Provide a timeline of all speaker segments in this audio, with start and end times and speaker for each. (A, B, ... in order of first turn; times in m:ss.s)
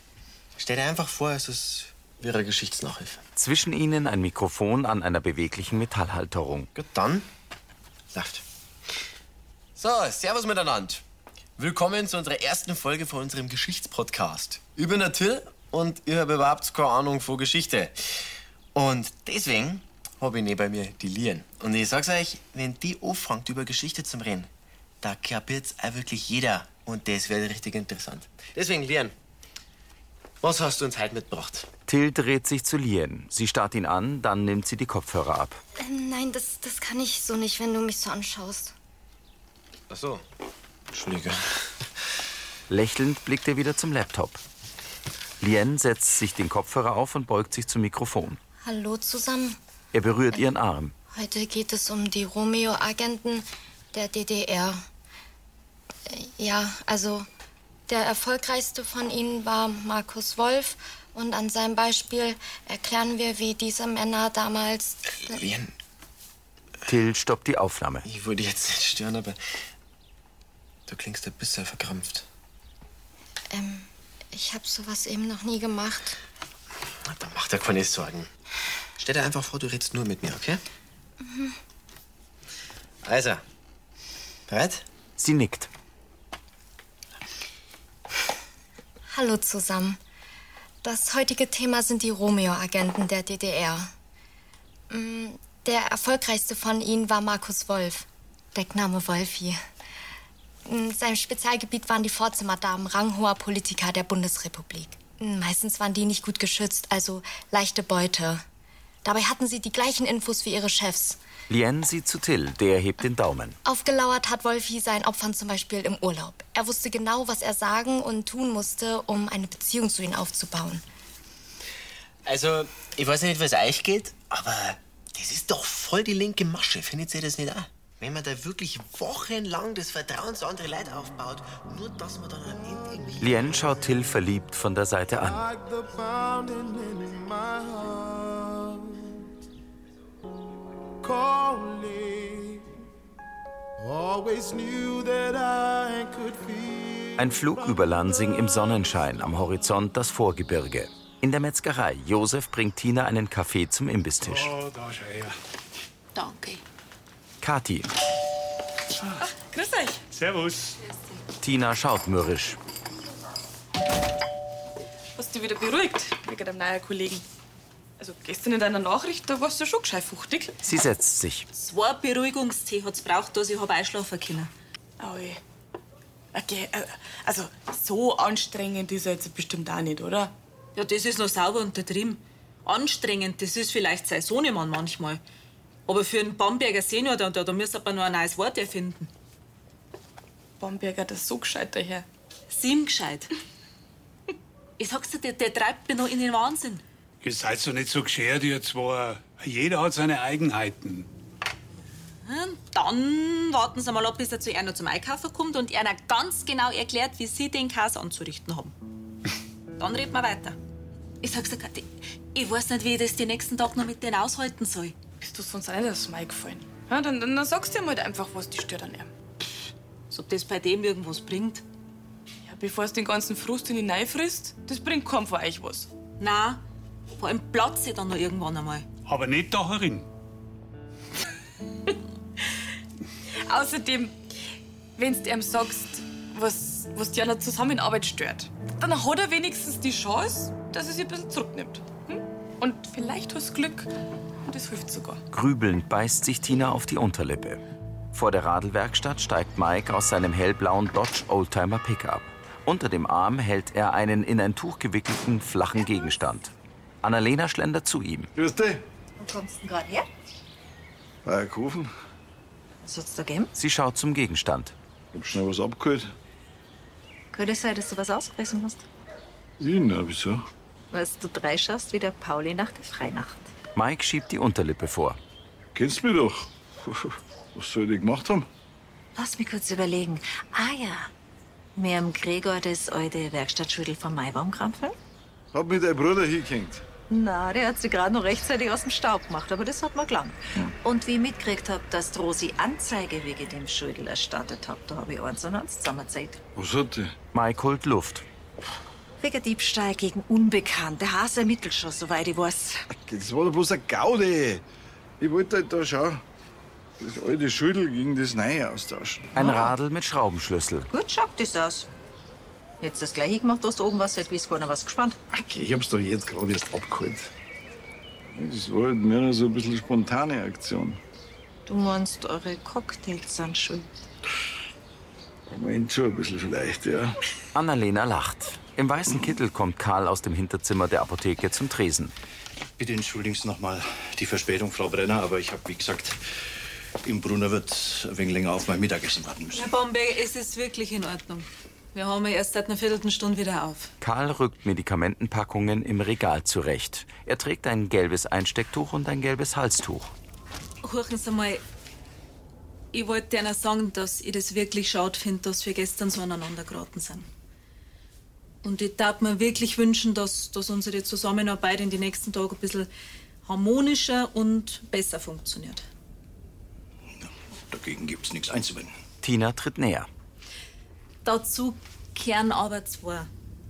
0:00.6-0:03.2 A
0:03.4-0:06.7 B
0:06.7-0:07.2 A
0:08.1-0:08.4 A
0:09.8-0:11.0 A
0:11.6-0:18.0 A
0:18.7-0:24.5 A
0:25.0-0:29.1 A
0:30.4-0:31.7 A
0:31.9-0:35.6 B
0:35.8-0:38.7 C
0:39.9-0:40.2 A
0:40.9-0:41.4 A
0:42.7-0:44.4 B
0:45.4-0:48.4 B
0:48.6-0:49.6 C
0:49.9-0:50.9 B
0:51.1-0:54.8 C
0:56.1-0:57.3 C
0:57.9-1:05.4 C
1:05.3-1:05.7 A
1:06.9-1:08.0 B
1:08.0-1:09.4 A
1:10.9-1:12.2 A
1:13.5-1:16.2 C
1:17.0-1:18.3 A
1:19.0-1:20.6 A
1:21.2-1:21.6 C
1:23.0-1:23.4 A
1:24.5-1:24.8 A
1:25.2-1:25.7 B
1:29.1-1:30.0 C
1:30.8-1:33.9 C
1:34.9-1:39.6 C
1:40.6-1:48.4 C
1:49.0-1:51.2 C
1:51.5-1:53.6 B
1:53.6-2:00.8 C
2:02.2-2:13.2 A
2:13.2-2:15.5 B
2:15.2-2:19.1 D
2:21.0-2:22.7 D
2:23.8-2:27.2 D
2:27.2-2:34.5 B
2:34.2-2:35.3 E
2:36.2-2:36.6 F
2:37.4-2:37.9 B
2:39.2-2:40.0 G
2:40.1-2:40.8 E
2:41.4-2:42.6 B
2:45.1-2:47.2 G
2:48.0-2:50.6 G
2:50.6-2:51.4 B
2:51.5-2:54.5 F
2:55.0-2:55.4 G
2:56.3-3:00.3 G
3:00.8-3:05.2 F
3:05.9-3:09.1 F
3:10.6-3:12.0 G
3:12.5-3:13.3 F
3:14.8-3:16.8 F
3:17.2-3:21.1 E
3:22.2-3:28.7 F
3:29.8-3:30.6 F
3:31.2-3:35.0 F
3:35.2-3:39.1 G
3:40.1-3:41.6 F
3:42.4-3:45.9 G
3:46.2-3:46.6 F
3:47.2-3:48.8 F
3:49.0-3:50.1 E
3:53.4-3:54.2 G
3:55.0-4:03.9 G
4:04.4-4:05.2 G
4:05.3-4:07.6 B
4:08.1-4:16.5 B
4:17.0-4:18.3 B
4:18.3-4:18.8 H
4:19.2-4:20.0 I
4:21.2-4:21.9 H
4:22.8-4:23.5 I
4:23.6-4:24.7 B
4:25.1-4:26.1 H
4:27.3-4:28.8 I
4:29.6-4:30.4 H
4:30.9-4:33.5 I
4:33.8-4:35.2 B
4:35.7-4:38.5 H
4:39.1-4:41.1 I
4:41.7-4:44.9 I
4:45.5-4:46.8 H
4:47.1-4:56.4 I
4:56.6-4:57.1 H
4:57.3-4:58.2 B
4:59.2-5:02.8 I
5:02.9-5:04.6 H
5:05.2-5:06.2 H
5:07.0-5:09.3 H
5:09.3-5:09.7 I
5:09.3-5:10.9 B
5:10.9-5:11.9 I
5:12.8-5:15.2 I
5:15.3-5:17.3 H
5:18.3-5:21.0 H
5:21.6-5:23.9 I
5:25.5-5:27.2 H
5:27.5-5:32.1 B
5:32.8-5:36.2 J
5:37.0-5:39.7 J
5:39.5-5:43.9 F
5:44.0-5:50.1 B
5:50.8-5:51.6 F
5:52.9-5:57.3 F
5:58.6-6:02.9 F
6:03.4-6:05.8 F
6:07.2-6:09.0 J
6:09.2-6:10.1 B
6:11.2-6:13.3 F